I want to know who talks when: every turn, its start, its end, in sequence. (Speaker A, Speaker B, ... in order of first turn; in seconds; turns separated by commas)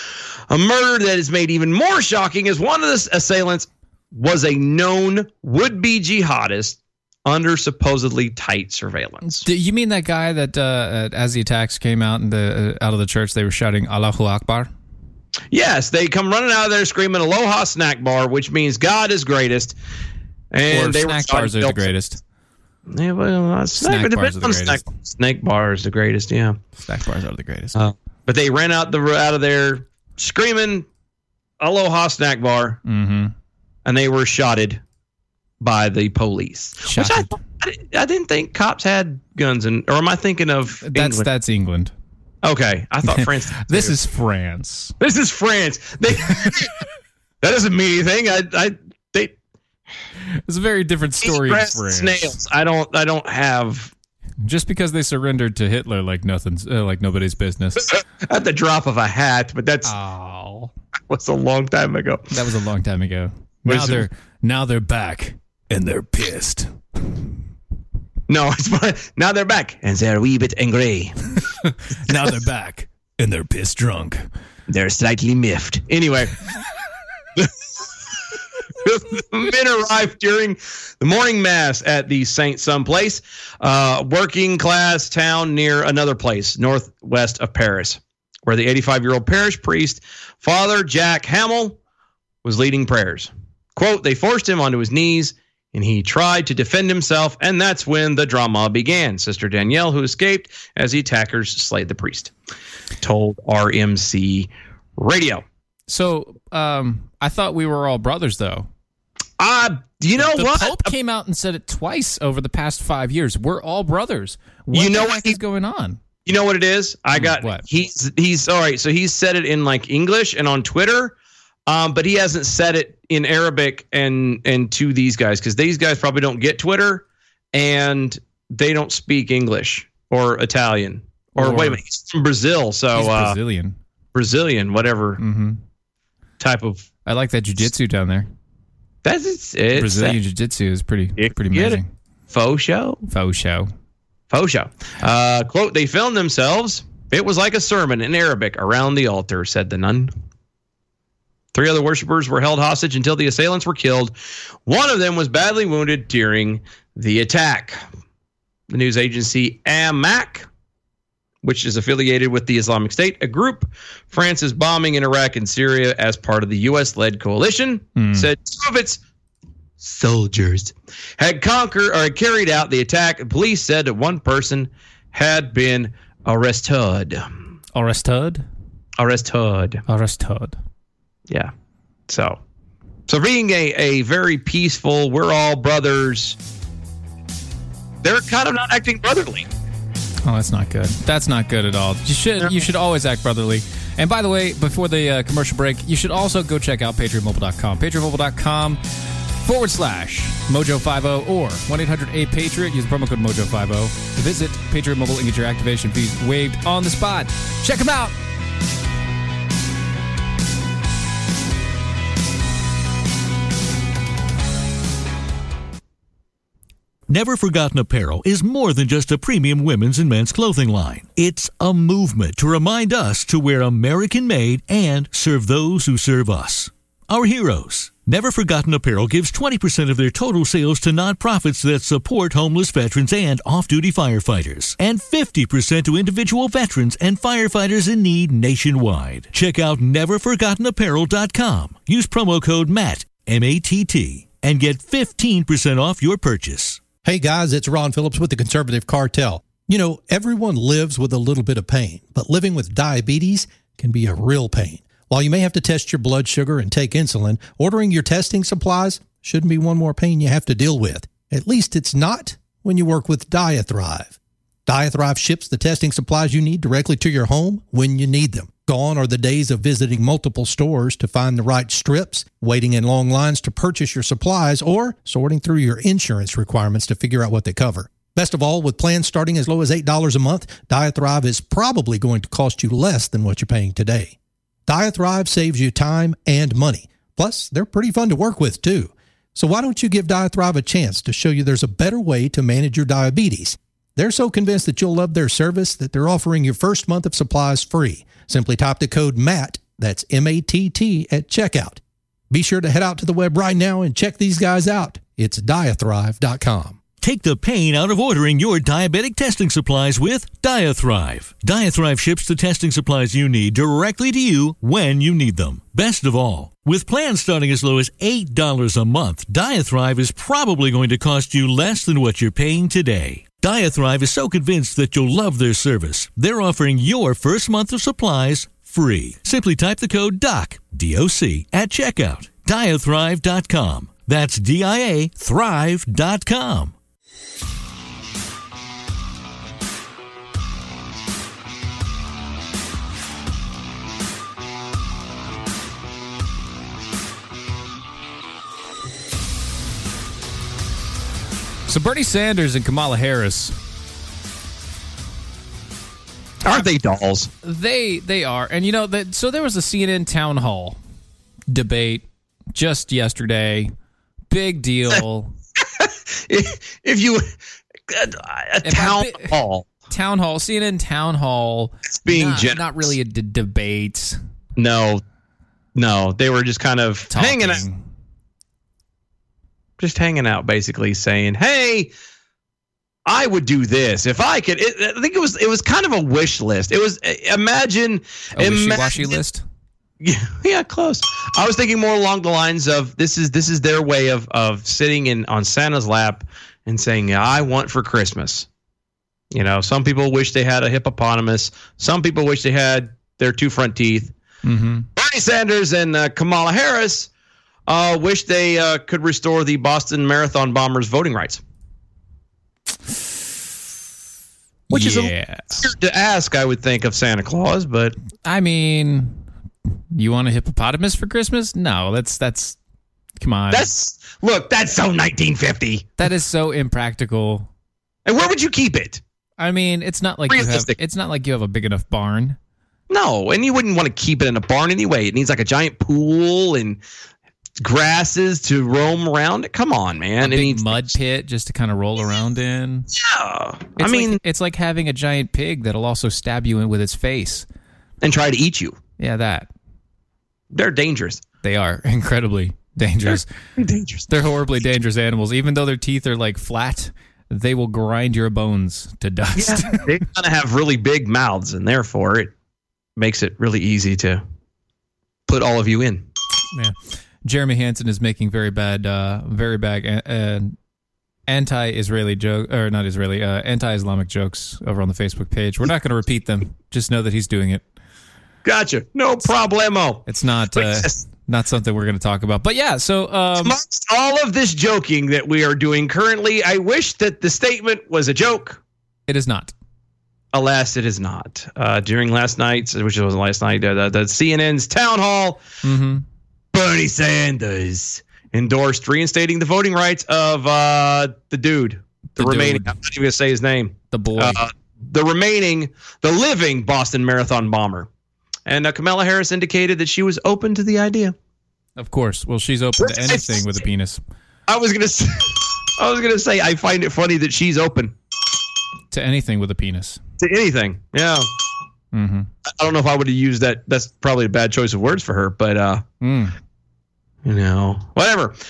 Speaker A: 0.5-9.5, Speaker B: 9.2-14.7, Speaker A: 15.5-19.8, Speaker A: 20.5-21.9, Speaker B: 20.7-22.2, Speaker A: 22.9-26.6, Speaker B: 23.8-24.9, Speaker B: 26.8-27.9, Speaker A: 27.8-30.9, Speaker A: 31.6-32.8, Speaker B: 32.9-33.3, Speaker A: 33.9-34.8, Speaker A: 35.6-41.3, Speaker B: 36.9-37.4, Speaker B: 40.8-41.9, Speaker A: 42.4-44.0, Speaker B: 43.0-45.0, Speaker A: 45.0-46.7, Speaker A: 47.4-49.4, Speaker B: 50.5-52.3, Speaker A: 51.2-53.9, Speaker B: 54.5-57.9, Speaker A: 57.9-59.9, Speaker B: 59.9-60.7, Speaker A: 61.1-62.3, Speaker B: 62.3-67.2, Speaker A: 63.7-64.1, Speaker A: 68.3-71.2, Speaker B: 71.5-74.2, Speaker A: 74.7-76.3, Speaker A: 78.8-91.8, Speaker A: 92.4-102.3, Speaker A: 103.0-105.4, Speaker B: 105.9-108.7, Speaker A: 109.4-110.9, Speaker B: 110.2-116.0, Speaker A: 114.7-115.4, Speaker A: 116.2-121.2, Speaker B: 117.1-117.7, Speaker A: 121.7-133.4, Speaker B: 131.3-131.8, Speaker B: 132.9-133.8, Speaker A: 134.1-135.2, Speaker B: 135.2-135.6, Speaker A: 136.4-136.9, Speaker B: 137.1-138.3, Speaker A: 139.0-140.2, Speaker B: 139.7-141.9, Speaker A: 141.2-143.0, Speaker B: 143.1-143.7, Speaker A: 144.3-150.1, Speaker A: 151.5-157.8, Speaker A: 158.7-160.5, Speaker A: 161.4-169.0, Speaker B: 168.0-168.3, Speaker A: 169.8-177.3, Speaker B: 177.7-178.5, Speaker A: 179.0-179.8, Speaker B: 179.9-180.6, Speaker A: 182.1-182.4, Speaker A: 183.1-186.4, Speaker A: 188.0-189.5, Speaker B: 190.2-198.8, Speaker B: 199.4-208.2, Speaker C: 217.1-246.8, Speaker D: 247.0-264.2, Speaker D: 264.7-284.1, Speaker D: 284.7-306.8, Speaker C: 307.0-336.7, Speaker B: 351.7-353.6, Speaker A: 356.4-357.3, Speaker B: 357.4-360.8, Speaker B: 361.5-363.7, Speaker B: 364.3-365.4, Speaker A: 365.6-367.3, Speaker A: 367.9-369.7, Speaker B: 368.6-369.4, Speaker B: 369.9-374.2, Speaker A: 371.9-372.9, Speaker A: 374.6-375.0, Speaker A: 375.8-377.6, Speaker B: 377.1-377.8, Speaker A: 379.8-381.9, Speaker A: 383.1-389.2, Speaker B: 388.4-389.4, Speaker A: 390.0-398.5, Speaker A: 399.3-404.1, Speaker B: 404.4-404.9, Speaker A: 405.0-407.1, Speaker A: 407.7-411.4, Speaker B: 414.7-415.6, Speaker A: 414.7-418.0, Speaker B: 418.2-419.2, Speaker B: 419.9-422.6, Speaker B: 423.2-423.7, Speaker A: 423.5-426.0, Speaker B: 426.0-427.5, Speaker A: 428.1-429.0, Speaker B: 429.4-432.4, Speaker A: 430.3-430.8, Speaker A: 432.9-436.8, Speaker A: 437.6-441.0, Speaker B: 440.2-442.9, Speaker A: 442.9-444.2, Speaker B: 443.8-447.5, Speaker A: 448.0-448.8, Speaker B: 449.0-449.5, Speaker A: 450.5-451.2, Speaker B: 451.4-453.3, Speaker A: 453.1-454.1, Speaker B: 454.1-459.9, Speaker A: 459.4-462.3, Speaker A: 463.0-464.2, Speaker A: 465.3-466.1, Speaker B: 466.5-470.6, Speaker B: 471.3-477.6, Speaker A: 478.4-481.0, Speaker B: 480.1-483.6, Speaker A: 483.4-488.6, Speaker B: 489.1-489.5, Speaker A: 490.3-495.4, Speaker B: 495.6-496.1, Speaker A: 496.5-507.9, Speaker B: 502.2-502.8, Speaker B: 503.9-504.4, Speaker A: 508.5-511.1, Speaker B: 511.8-514.0, Speaker A: 512.8-513.5, Speaker A: 514.5-518.0, Speaker B: 518.9-520.0, Speaker A: 520.2-521.3, Speaker B: 521.9-522.3, Speaker A: 522.5-525.8, Speaker B: 526.0-526.4, Speaker A: 527.2-528.4